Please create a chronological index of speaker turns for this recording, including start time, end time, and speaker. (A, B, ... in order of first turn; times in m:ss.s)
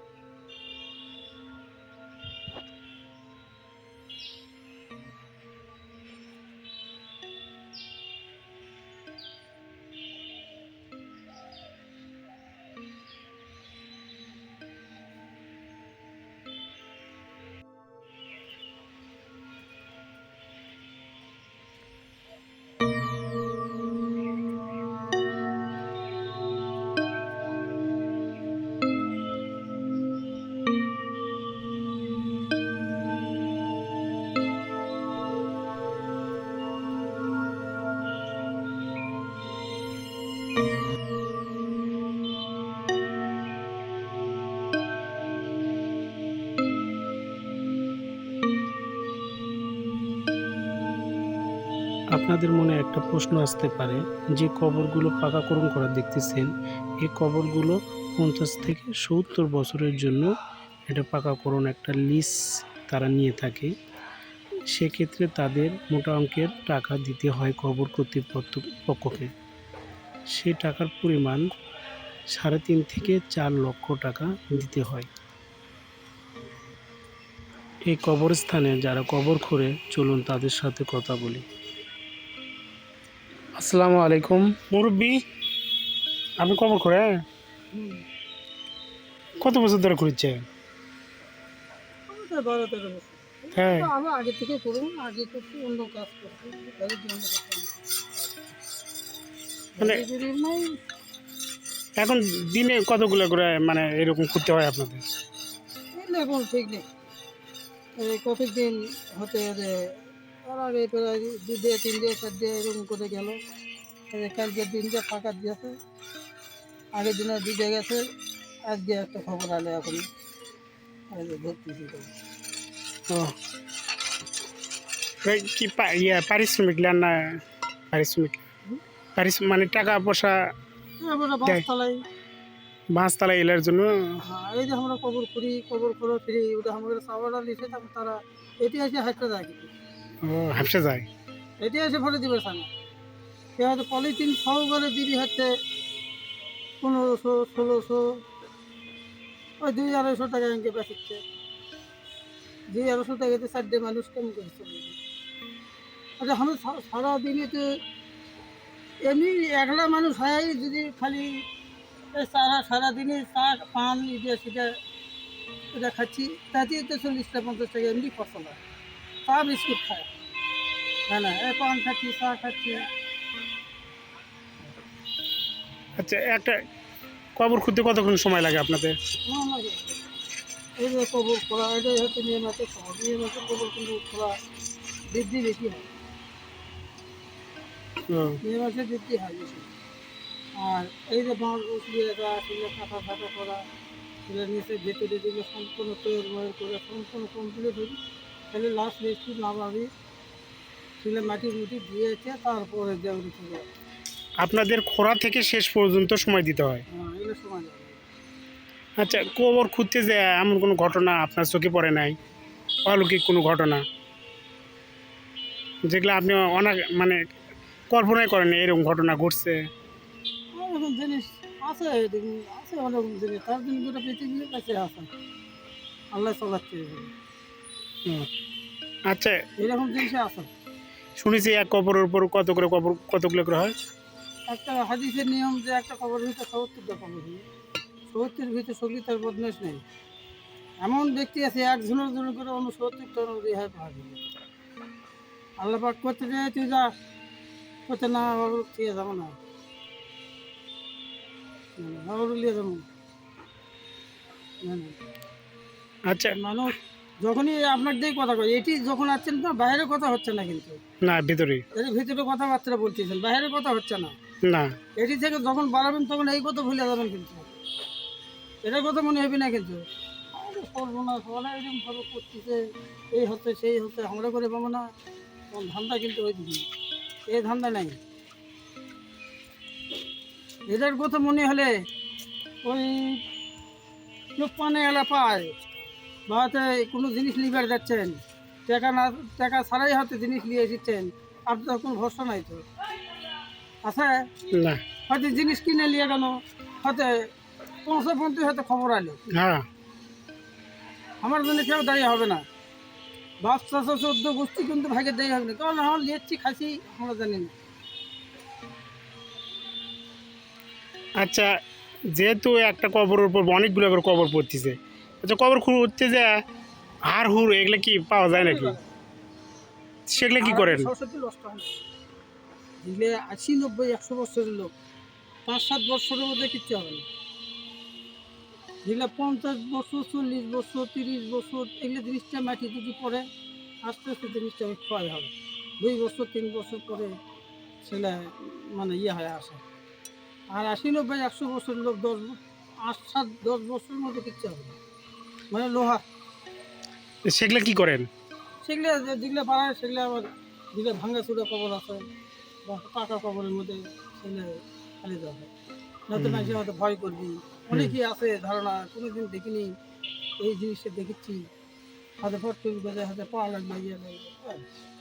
0:52.1-1:00.3 A
1:00.9-1:03.7 A
1:04.7-1:09.3 A
1:10.3-1:11.4 A
1:12.3-1:15.1 A
1:17.9-1:21.4 A
1:23.6-1:24.7 A
1:24.7-1:25.2 B
1:26.4-1:27.2 B
1:27.7-1:28.0 C
1:29.4-1:30.4 B
1:32.1-1:38.1 C
1:33.6-1:33.9 B
1:39.8-1:40.8 C
1:42.0-1:45.0 B
1:45.9-1:46.8 C
1:48.0-1:53.4 C
1:54.1-1:55.8 C
1:56.9-1:58.0 C
1:58.6-2:00.1 C
2:01.1-2:02.1 C
2:05.2-2:08.4 B
2:09.2-2:10.4 B
2:11.0-2:12.0 C
2:12.9-2:13.9 B
2:14.2-2:19.7 C
2:20.3-2:21.0 B
2:21.6-2:22.7 C
2:23.6-2:25.5 C
2:26.8-2:28.2 C
2:29.6-2:31.2 C
2:32.7-2:35.0 C
2:36.2-2:37.7 C
2:39.0-2:41.4 C
2:42.1-2:44.8 C
2:45.7-2:48.6 C
2:49.2-2:50.1 C
2:51.1-2:52.8 C
2:56.0-2:56.5 B
2:57.4-2:58.9 B
2:59.2-3:00.0 C
3:00.8-3:04.3 C
3:05.1-3:05.9 C
3:08.4-3:09.7 C
3:10.6-3:13.6 C
3:14.3-3:18.0 C
3:18.5-3:19.9 C
3:21.0-3:23.7 C
3:24.4-3:26.8 B
3:26.9-3:28.0 C
3:29.0-3:32.2 B
3:32.9-3:33.8 B
3:35.9-3:37.2 B
3:37.9-3:39.6 B
3:40.5-3:45.1 C
3:46.1-3:47.1 C
3:49.1-3:49.4 B
3:49.6-3:50.5 C
3:51.2-3:53.7 B
3:54.5-3:57.4 C
3:58.1-3:59.8 C
4:00.8-4:04.2 C
4:05.6-4:06.9 C
4:07.9-4:09.4 C
4:11.8-4:12.8 C
4:14.6-4:15.0 C
4:16.3-4:20.8 C
4:21.0-4:21.6 B
4:21.7-4:24.2 C
4:25.0-4:27.5 C
4:28.6-4:34.8 C
4:35.5-4:36.7 C
4:37.3-4:38.0 C
4:40.7-4:41.8 C
4:42.6-4:43.2 C
4:44.4-4:45.5 C
4:46.3-4:52.7 C
4:53.8-4:54.3 C
4:55.0-4:57.3 C
4:57.8-4:59.2 C
5:01.2-5:02.4 C
5:03.4-5:07.5 C
5:11.2-5:11.5 B
5:12.2-5:16.4 B
5:17.1-5:18.7 B
5:18.3-5:18.8 C
5:20.1-5:20.9 B
5:20.4-5:21.7 C
5:22.8-5:24.7 C
5:25.4-5:27.0 C
5:28.8-5:33.2 C
5:33.8-5:37.2 C
5:37.8-5:39.6 C
5:40.5-5:44.8 C
5:45.5-5:46.0 C
5:47.3-5:48.1 B
5:48.6-5:52.0 C
5:52.6-5:55.5 C
5:56.1-5:59.7 C
5:56.2-5:56.6 A
6:00.4-6:01.5 C
6:02.2-6:04.7 C